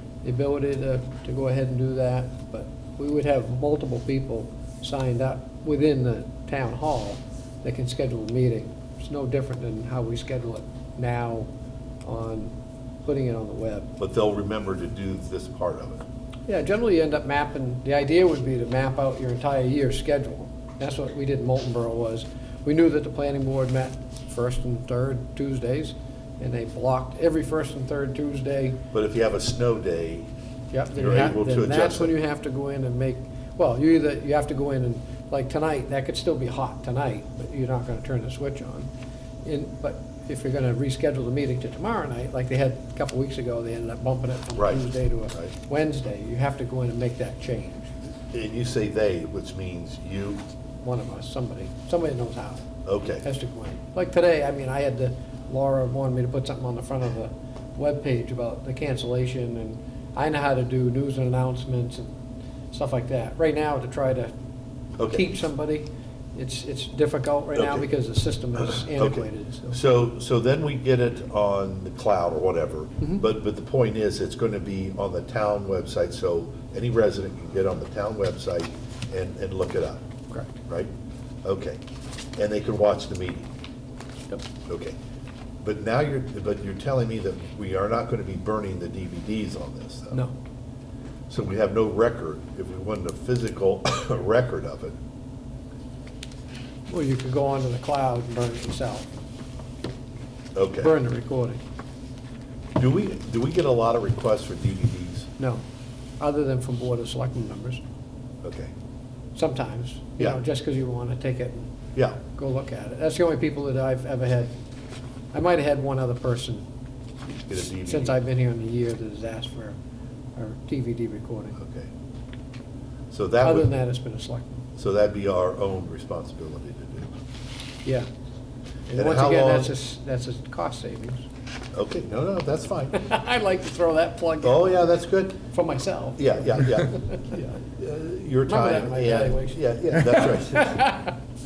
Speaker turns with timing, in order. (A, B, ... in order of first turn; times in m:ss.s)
0:00.2-0:11.5 A
0:12.0-0:14.0 A
0:14.0-0:16.0 B
0:16.5-0:28.8 A
0:28.9-0:30.3 B
0:30.7-0:38.9 A
0:31.0-0:32.1 B
0:39.4-0:47.9 A
0:44.6-0:45.5 B
0:48.3-0:50.4 B
0:50.8-0:52.7 A
0:52.8-0:53.2 B
0:53.2-1:02.2 A
1:02.7-1:04.3 A
1:05.0-1:05.3 B
1:05.1-1:09.8 A
1:07.6-1:07.9 B
1:08.7-1:20.1 B
1:20.6-1:20.9 B
1:21.4-1:21.8 B
1:22.4-1:23.5 B
1:24.7-1:25.0 B
1:25.6-1:30.2 B
1:31.3-1:35.0 B
1:36.9-1:39.1 A
1:40.6-1:41.0 B
1:40.8-1:41.6 A
1:42.8-1:45.3 B
1:45.4-1:45.6 A
1:46.2-1:47.8 A
1:48.4-1:48.7 B
1:49.4-1:51.7 A
1:52.0-1:52.2 B
1:52.3-1:54.5 A
1:55.3-1:56.7 A
1:57.5-1:58.2 B
1:57.6-1:59.8 A
2:00.4-2:01.6 A
2:01.6-2:01.9 B
2:03.1-2:03.7 B
2:03.4-2:04.6 A
2:04.8-2:07.1 B
2:08.9-2:11.3 A
2:08.9-2:09.7 B
2:11.7-2:13.0 B
2:12.9-2:14.7 A
2:14.4-2:15.4 B
2:15.5-2:17.5 A
2:16.2-2:20.9 B
2:18.5-2:21.1 A